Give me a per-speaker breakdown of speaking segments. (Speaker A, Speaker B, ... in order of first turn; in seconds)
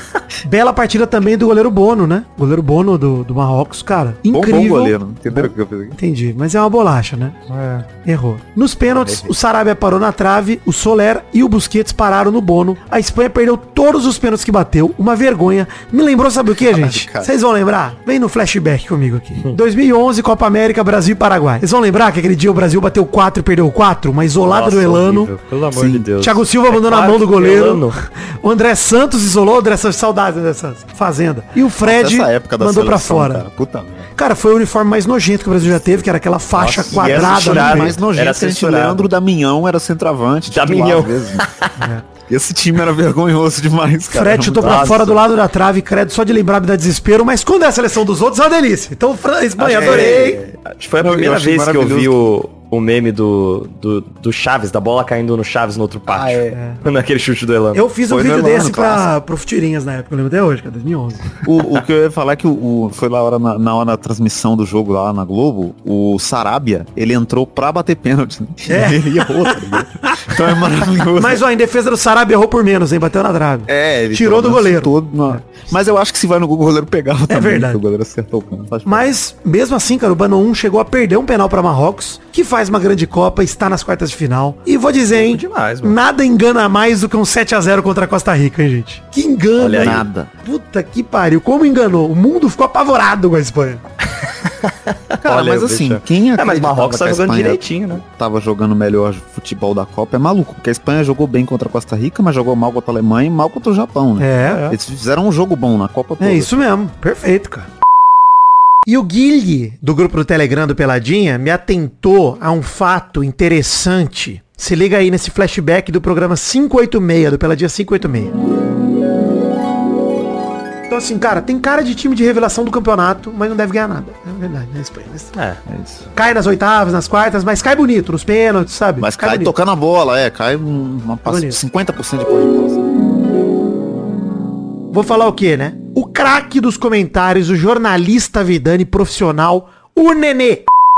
Speaker A: 0.4-25.3, 26.2-33.4, 34.1-38.0, 41.8-42.0, 44.1-50.4, 56.5-56.8, 57.7-61.3, 68.7-70.3, 71.1-75.4, 77.3-77.8, 78.9-93.8, 104.2-104.7, 106.2-107.7, 108.9-118.3, 120.9-125.3, 126.1-129.5, 131.2-131.6, 134.9-140.6
Speaker B: 4.3-6.0, 8.9-9.3, 16.5-17.3, 25.7-26.1, 31.8-34.1, 35.6-36.0, 36.9-41.5, 42.2-45.2, 49.7-52.3, 56.1-56.5, 58.1-59.1, 61.4-71.4, 73.7-79.1, 89.7-90.3, 95.2-106.6, 125.7-126.0, 129.0-132.8
Speaker C: 24.5-27.9, 36.5-39.1, 40.5-41.7, 44.6-45.0, 49.6-57.8, 85.1-86.0, 89.6-90.0, 94.2-98.0, 104.5-104.7